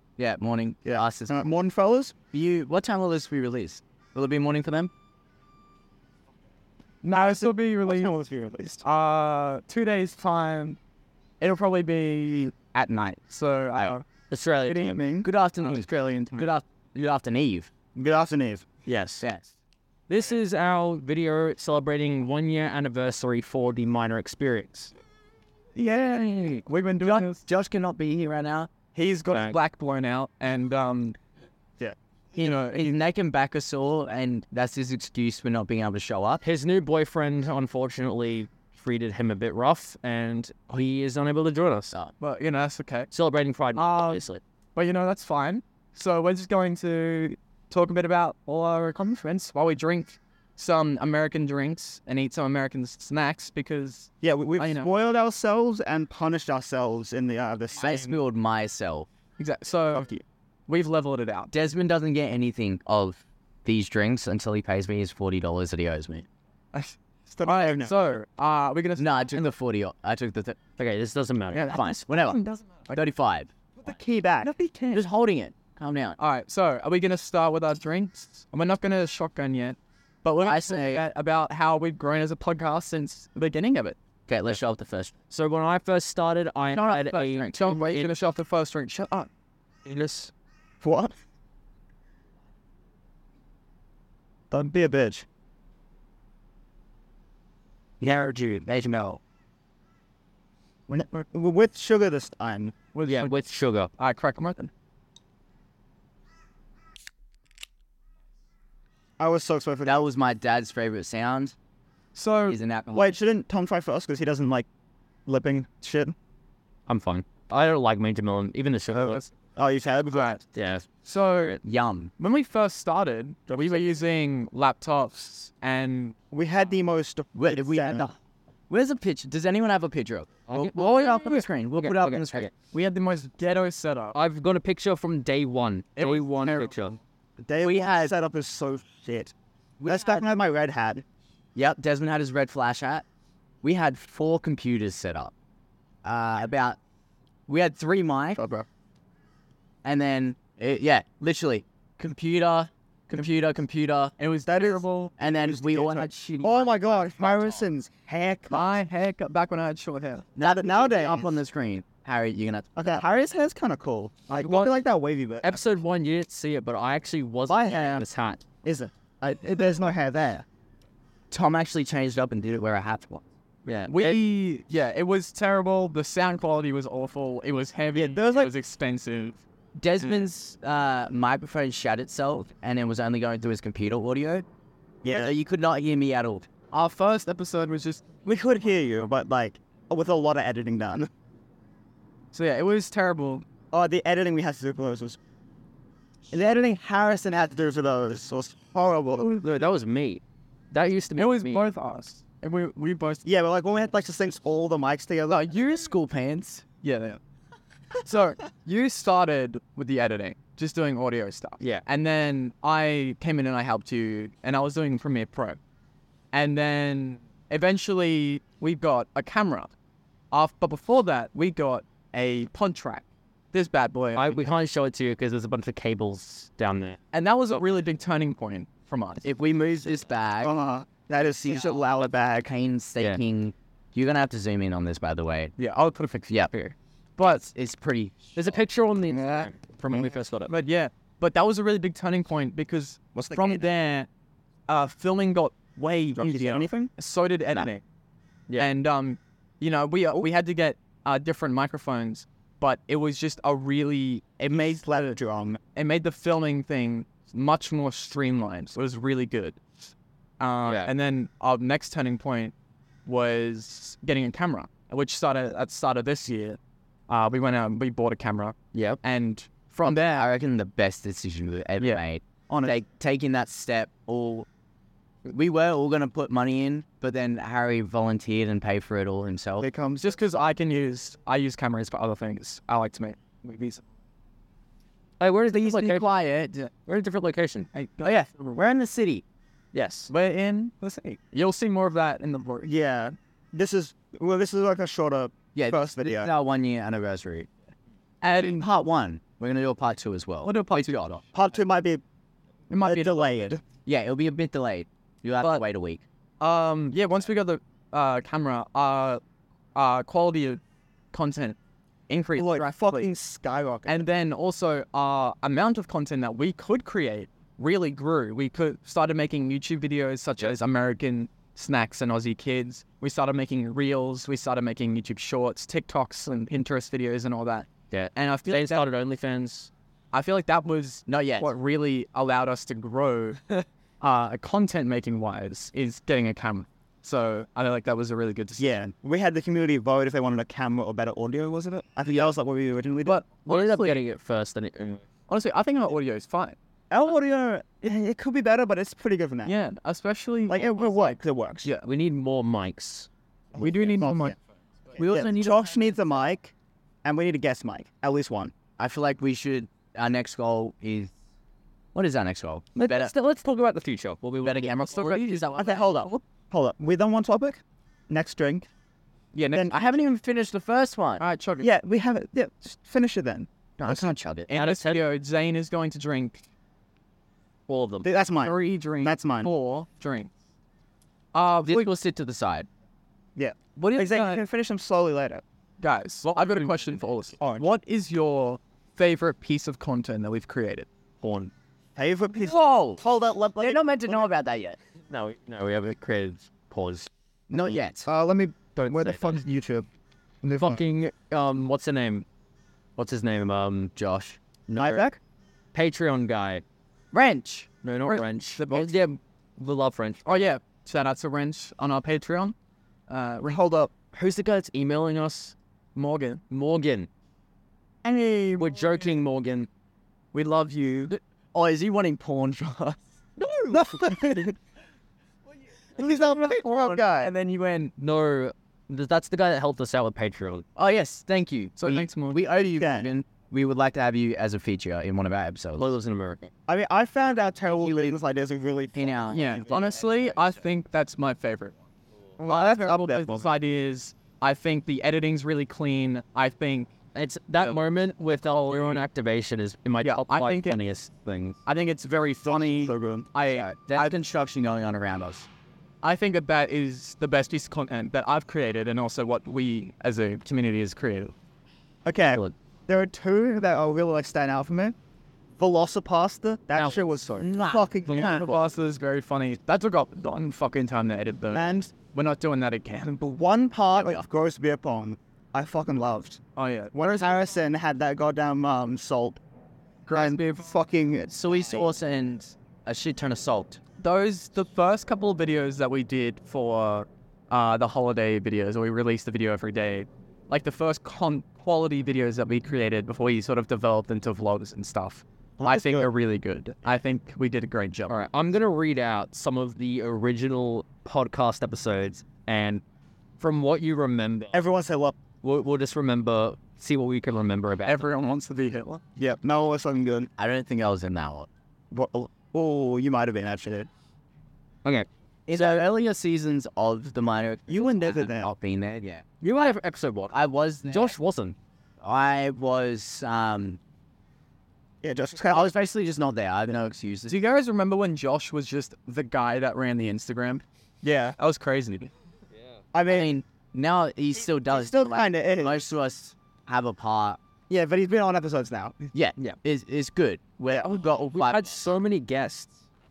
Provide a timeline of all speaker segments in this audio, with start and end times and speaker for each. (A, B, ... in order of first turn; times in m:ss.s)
0:00.2-0:01.5 A
0:00.8-0:02.1 B
0:02.3-0:04.9 A
0:07.0-0:08.1 C
0:07.1-0:08.8 B
0:08.8-0:10.8 C
0:11.4-0:12.5 C
0:12.7-0:13.2 A
0:13.3-0:14.0 C
0:14.3-0:14.9 D
0:14.6-0:15.3 B
0:15.2-0:17.7 A
0:17.9-0:18.6 B
0:18.8-0:19.2 D
0:19.2-0:19.5 A
0:20.1-0:24.9 D
0:25.8-0:28.8 A
0:26.6-0:27.4 C
0:28.9-0:31.2 C
0:29.3-0:29.6 D
0:32.3-0:33.0 C
0:32.4-0:36.4 A
0:36.4-0:41.9 D
0:42.2-0:43.1 C
0:43.1-0:44.4 D
0:43.7-0:44.2 C
0:44.7-0:54.9 C
0:54.2-0:58.2 B
0:57.8-0:59.1 A
0:59.4-1:00.1 C
0:59.9-1:00.2 B
1:00.7-1:01.5 C
1:01.5-1:06.3 A
1:06.7-1:09.1 C
1:07.4-1:07.9 B
1:09.0-1:10.6 A
1:10.8-1:11.8 D
1:11.5-1:13.5 A
1:13.8-1:15.0 B
1:14.6-1:15.0 C
1:14.9-1:16.2 A
1:16.2-1:24.0 C
1:20.4-1:21.0 A
1:24.3-1:25.1 A
1:25.3-1:28.1 D
1:26.7-1:29.3 C
1:29.8-1:30.3 D
1:30.8-1:31.1 B
1:34.5-1:35.2 B
1:38.3-1:38.6 B
1:38.6-1:39.2 A
1:40.9-1:42.7 B
1:42.9-1:43.4 C
1:43.0-1:43.9 D
1:44.0-1:44.7 C
1:49.2-1:50.0 B
1:49.8-1:51.5 A
1:52.1-1:52.6 C
1:52.5-1:53.1 A
1:52.9-1:54.7 B
1:55.2-1:56.2 B
1:56.9-1:59.2 D
1:59.6-2:00.4 B
2:00.1-2:00.4 C
2:00.5-2:00.9 D
2:01.0-2:01.6 C
2:01.6-2:02.1 A
2:02.2-2:06.1 C
2:06.3-2:08.1 B
2:07.3-2:08.2 A
2:08.7-2:12.5 A
2:10.5-2:12.5 D
2:12.7-2:14.2 C
2:14.1-2:17.0 D
2:16.0-2:16.7 C
2:17.4-2:19.3 B
2:17.6-2:18.1 A
2:19.8-2:20.2 A
2:19.8-2:21.0 B
2:21.5-2:23.0 A
2:23.6-2:25.3 A
2:26.0-2:26.8 A
2:27.5-2:28.4 A
2:28.3-2:28.7 B
2:29.8-2:34.2 A
2:34.2-2:35.1 C
2:34.4-2:38.6 B
2:35.2-2:36.6 A
2:38.5-2:40.2 C
2:40.4-2:41.4 B
2:40.4-2:43.0 A
2:42.8-2:45.6 B
2:44.4-2:44.7 D
2:45.4-2:48.4 D
2:47.5-2:48.1 B
2:48.6-2:50.4 B
2:51.3-2:53.2 A
2:53.6-2:54.2 D
2:53.9-2:59.4 C
2:57.9-2:58.5 B
2:59.8-3:04.4 A
3:05.0-3:05.3 B
3:05.1-3:06.5 A
3:06.7-3:08.1 C
3:08.2-3:11.1 B
3:12.3-3:13.4 C
3:13.7-3:15.2 B
3:16.3-3:19.4 B
3:19.2-3:21.6 D
3:21.2-3:23.2 C
3:23.2-3:25.6 B
3:25.3-3:26.6 A
3:26.8-3:27.2 C
3:28.0-3:35.6 C
3:36.3-3:39.7 C
3:40.3-3:44.4 C
3:44.1-3:47.0 D
3:47.1-3:49.2 C
3:49.2-3:50.5 A
3:50.4-3:52.5 B
3:51.4-3:51.7 A
3:52.4-3:55.5 A
3:55.6-3:57.4 C
3:57.2-3:58.3 A
3:58.3-4:00.5 D
3:59.1-4:00.2 B
4:00.5-4:04.1 C
4:03.1-4:03.6 B
4:04.7-4:07.8 C
4:06.1-4:06.9 B
4:08.6-4:14.2 C
4:14.4-4:15.6 B
4:15.7-4:19.6 C
4:20.4-4:22.5 C
4:23.0-4:26.6 C
4:27.1-4:30.2 C
4:28.7-4:29.0 D
4:29.8-4:34.5 A
4:31.8-4:32.7 C
4:35.2-4:39.7 A
4:39.6-4:40.2 B
4:40.0-4:43.8 C
4:45.2-4:46.1 D
4:45.5-4:46.7 A
4:46.8-4:47.7 D
4:47.7-4:48.1 C
4:48.0-4:49.2 A
4:49.7-4:50.1 D
4:50.1-4:52.7 C
4:52.6-4:56.3 B
4:55.5-4:57.5 A
4:58.2-4:58.6 C
4:58.5-5:01.2 A
5:00.4-5:01.0 C
5:01.3-5:02.0 B
5:02.7-5:03.2 C
5:02.8-5:03.6 B
5:03.8-5:06.0 A
5:06.4-5:09.2 C
5:09.7-5:10.6 C
5:11.1-5:11.6 C
5:12.1-5:13.1 C
5:12.4-5:14.1 B
5:13.8-5:28.8 C
5:27.9-5:29.7 D
5:30.1-5:38.7 C
5:31.1-5:31.5 A
5:38.6-5:43.2 B
5:43.0-5:44.0 C
5:43.4-5:45.0 D
5:45.3-5:46.6 C
5:46.9-5:49.5 B
5:49.4-5:51.8 C
5:50.5-5:51.7 B
5:51.8-5:53.1 D
5:53.5-5:54.3 B
5:53.6-5:54.3 C
5:55.0-5:55.6 C
5:55.0-5:56.5 B
5:55.0-5:55.3 A
5:57.0-5:58.5 B
5:58.8-6:01.1 A
6:01.9-6:03.1 A
6:02.8-6:05.2 D
6:04.4-6:06.0 A
6:05.5-6:08.7 B
6:09.3-6:09.7 C
6:09.6-6:11.2 A
6:11.2-6:11.7 C
6:11.6-6:14.2 B
6:13.8-6:14.5 A
6:14.5-6:16.4 C
6:14.6-6:15.0 D
6:17.7-6:18.1 D
6:18.0-6:19.5 B
6:18.4-6:20.3 C
6:21.3-6:21.9 C
6:21.6-6:22.7 A
6:23.4-6:25.4 B
6:23.8-6:24.4 C
6:25.8-6:30.9 C
6:27.4-6:27.7 B
6:31.2-6:31.5 D
6:32.0-6:34.3 B
6:32.4-6:33.0 A
6:33.6-6:34.8 A
6:35.1-6:37.1 D
6:37.5-6:38.1 A
6:38.0-6:39.9 B
6:38.8-6:39.3 D
6:40.4-6:40.8 B
6:40.6-6:42.2 D
6:43.0-6:43.9 D
6:44.0-6:44.4 A
6:44.7-6:45.0 D
6:44.8-6:45.2 B
6:45.7-6:46.6 D
6:47.1-6:48.2 A
6:47.8-6:50.2 D
6:48.1-6:49.0 C
6:50.2-6:52.5 C
6:53.1-6:53.9 C
6:54.1-6:55.5 D
6:55.9-6:56.4 C
6:56.5-6:57.1 D
6:58.0-6:59.0 C
6:58.6-6:59.7 D
7:00.3-7:01.1 C
7:01.5-7:03.0 A
7:03.7-7:04.6 B
7:06.0-7:07.3 B
7:06.0-7:07.9 C
7:08.0-7:10.6 D
7:10.8-7:15.9 A
7:11.8-7:12.5 C
7:12.7-7:13.1 B
7:15.8-7:16.5 D
7:16.7-7:20.1 B
7:17.7-7:18.2 A
7:18.9-7:19.8 A
7:19.3-7:21.7 C
7:22.4-7:26.9 C
7:22.4-7:23.4 B
7:27.1-7:31.6 D
7:28.7-7:29.0 C
7:30.0-7:30.8 C
7:31.6-7:34.2 C
7:32.4-7:33.3 B
7:33.5-7:35.5 A
7:36.0-7:41.3 C
7:42.0-7:45.0 B
7:45.6-7:48.5 B
7:47.4-7:47.8 A
7:48.1-7:53.3 C
7:51.5-7:51.9 B
7:53.2-7:56.4 B
7:56.6-7:56.9 C
7:56.9-7:59.4 B
8:00.0-8:00.6 C
8:00.1-8:02.0 B
8:01.3-8:03.8 A
8:04.0-8:18.1 C
8:15.6-8:16.1 B
8:18.1-8:22.8 D
8:23.4-8:24.6 D
8:24.5-8:25.2 B
8:25.4-8:28.1 D
8:27.8-8:29.0 C
8:29.2-8:30.3 B
8:30.4-8:31.5 A
8:31.9-8:33.9 B
8:35.5-8:39.2 A
8:35.5-8:35.8 B
8:37.7-8:38.5 B
8:39.4-8:40.4 D
8:40.3-8:41.2 A
8:40.9-8:41.6 D
8:42.0-8:43.8 A
8:45.0-8:45.7 B
8:45.5-8:47.4 A
8:47.3-8:50.6 C
8:51.0-8:51.4 B
8:51.4-8:52.1 C
8:52.9-8:53.3 B
8:53.1-8:57.4 A
8:54.6-8:55.8 B
8:57.7-8:59.1 B
8:59.1-9:01.8 A
9:01.3-9:02.8 D